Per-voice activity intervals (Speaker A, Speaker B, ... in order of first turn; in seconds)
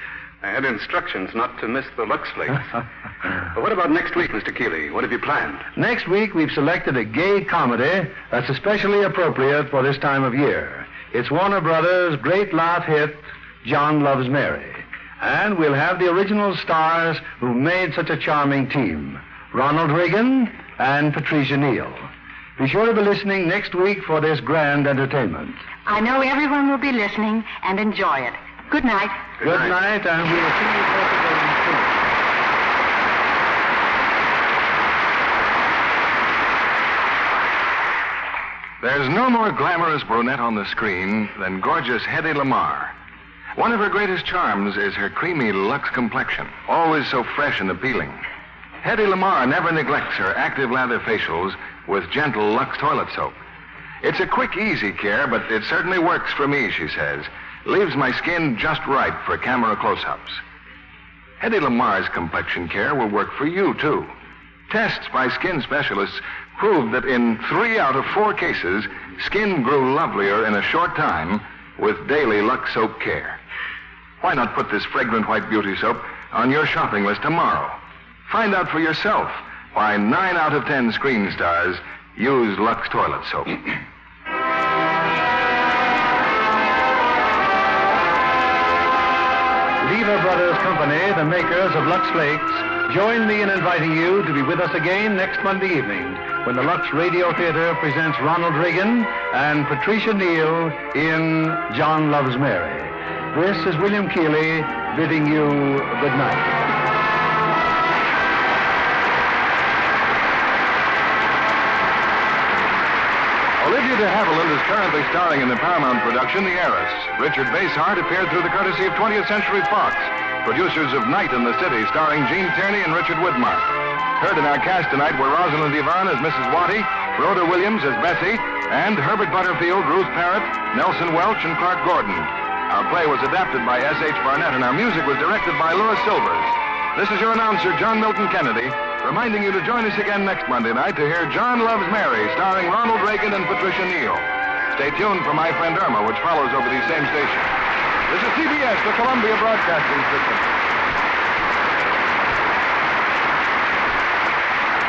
Speaker A: 0.4-2.7, 3.5-5.7, 29.4-29.7
Speaker B: 5.8-25.6, 29.4-32.0, 89.8-106.6
Speaker C: 25.9-29.3
Speaker D: 38.8-43.0, 43.6-48.2, 48.8-53.4, 54.0-60.4, 61.4-64.1, 64.7-73.4, 74.2-83.7, 113.6-147.5, 148.1-150.6